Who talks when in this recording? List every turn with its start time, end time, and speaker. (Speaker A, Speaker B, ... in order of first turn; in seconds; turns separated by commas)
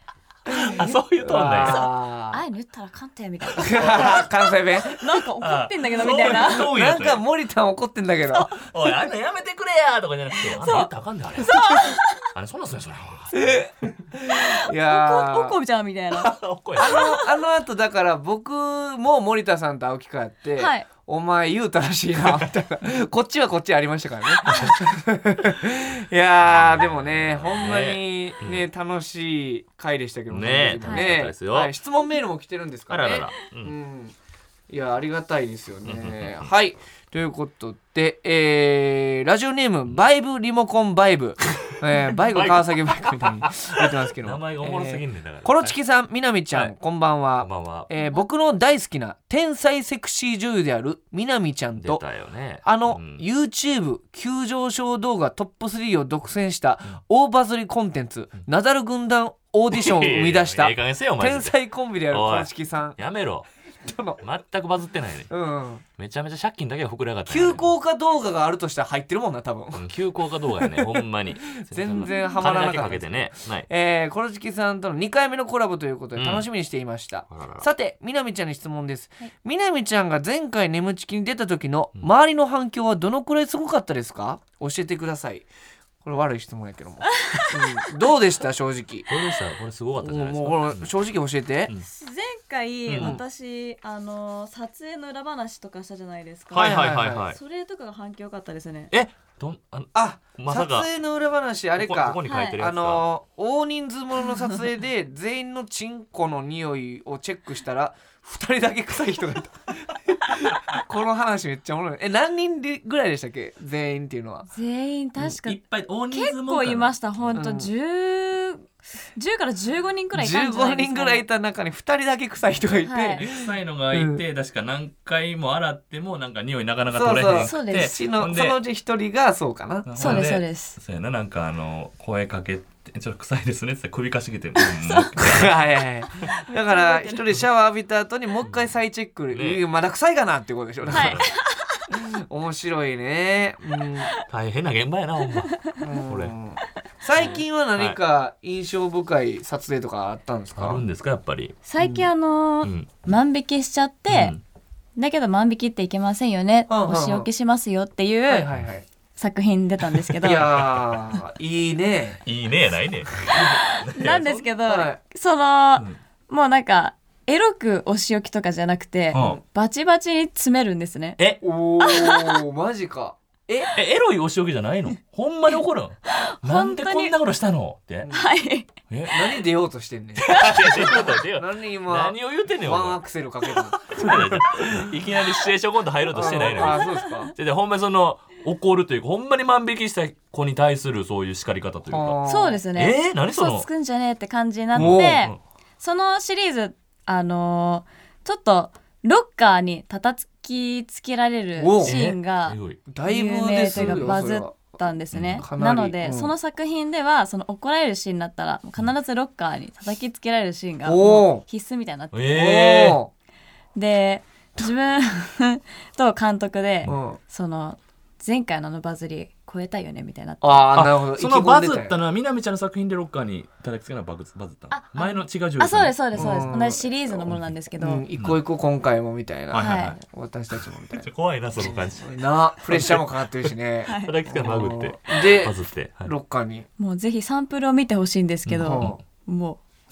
Speaker A: 0.5-2.4, Speaker B: 0.6-1.8, Speaker C: 1.5-4.2, Speaker A: 3.6-5.0, Speaker C: 4.9-6.7, Speaker B: 5.4-7.2, Speaker A: 6.0-8.6, Speaker B: 8.3-11.6, Speaker C: 10.5-10.9, Speaker C: 11.4-12.2, Speaker B: 12.3-13.7, Speaker A: 13.3-15.6, Speaker C: 14.3-17.2, Speaker B: 16.2-17.2, Speaker A: 16.8-34.1, Speaker C: 20.6-20.9, Speaker B: 24.5-24.8, Speaker B: 26.5-28.6, Speaker B: 30.3-31.7, Speaker C: 30.8-31.1, Speaker B: 32.9-33.8, Speaker A: 34.7-52.0, Speaker B: 35.9-36.5, Speaker B: 42.2-45.8, Speaker B: 47.4-47.9, Speaker B: 51.8-53.2, Speaker A: 52.6-63.0, Speaker B: 59.7-61.6, Speaker B: 62.1-63.5, Speaker A: 63.8-64.2, Speaker B: 64.2-65.3, Speaker A: 65.3-65.8, Speaker B: 66.0-67.7, Speaker A: 67.3-69.9, Speaker B: 69.8-73.7, Speaker A: 70.6-71.1, Speaker A: 71.6-85.5, Speaker C: 72.0-72.4, Speaker B: 76.2-76.5, Speaker B: 77.3-77.7, Speaker A: 86.0-89.1, Speaker C: 87.2-87.5, Speaker B: 89.1-90.9, Speaker A: 90.0-91.7, Speaker C: 91.8-98.9, Speaker B: 92.9-93.2, Speaker B: 96.5-97.4, Speaker A: 96.5-97.3, Speaker B: 98.9-100.9, Speaker A: 100.0-114.5, Speaker B: 101.8-103.0, Speaker C: 102.3-102.6, Speaker C: 114.5-115.6, Speaker B: 115.2-117.4, Speaker C: 116.1-121.2, Speaker A: 117.3-117.7, Speaker A: 120.1-124.2, Speaker C: 122.8-123.2, Speaker B: 123.2-128.6, Speaker A: 126.9-130.3, Speaker C: 127.3-127.9, Speaker B: 129.9-135.6, Speaker C: 130.0-130.8, Speaker A: 135.1-141.2, Speaker C: 136.2-137.2, Speaker B: 138.4-138.7, Speaker B: 139.3-139.6, Speaker B: 140.8-141.3, Speaker C: 140.9-141.9, Speaker A: 141.9-144.1, Speaker B: 144.3-146.3, Speaker C: 145.4-145.8, Speaker A: 145.8-150.8, Speaker B: 147.2-148.0, Speaker B: 150.6-151.6, Speaker C: 151.7-154.3, Speaker A: 151.8-152.1, Speaker B: 154.1-154.4, Speaker C: 155.0-158.5, Speaker A: 156.7-157.3, Speaker A: 158.3-158.9, Speaker C: 159.2-160.5, Speaker A: 160.2-162.2, Speaker B: 160.3-160.8, Speaker B: 162.2-164.5, Speaker C: 163.3-171.2, Speaker A: 164.7-165.0, Speaker B: 169.1-169.4, Speaker A: 169.1-169.4, Speaker A: 171.4-173.7, Speaker C: 171.8-172.4, Speaker B: 173.8-178.1, Speaker C: 176.1-177.2, Speaker A: 178.0-178.3, Speaker C: 178.1-178.7, Speaker B: 178.9-179.4, Speaker A: 179.1-184.9, Speaker B: 180.2-183.0, Speaker B: 183.5-192.2, Speaker A: 186.1-187.3, Speaker C: 186.2-187.3, Speaker A: 191.9-192.6, Speaker C: 192.3-212.2, Speaker B: 192.8-193.7, Speaker A: 194.8-195.3, Speaker B: 194.8-195.4, Speaker A: 201.6-202.0, Speaker B: 201.8-202.8, Speaker A: 202.9-204.7, Speaker B: 203.7-204.2, Speaker B: 205.1-205.4, Speaker A: 205.4-206.3, Speaker A: 210.8-211.4, Speaker B: 212.1-213.0, Speaker A: 212.3-213.1, Speaker C: 213.8-220.7, Speaker A: 216.9-217.2, Speaker A: 220.4-222.0, Speaker B: 220.7-226.4, Speaker C: 224.7-228.1, Speaker A: 226.2-227.2, Speaker A: 227.8-231.1, Speaker B: 229.5-230.0, Speaker C: 229.6-230.0, Speaker B: 231.0-233.5, Speaker A: 231.6-235.5, Speaker C: 233.9-234.1, Speaker B: 234.0-236.1, Speaker A: 236.1-236.7, Speaker C: 236.8-239.6, Speaker B: 238.5-239.0, Speaker A: 238.6-239.0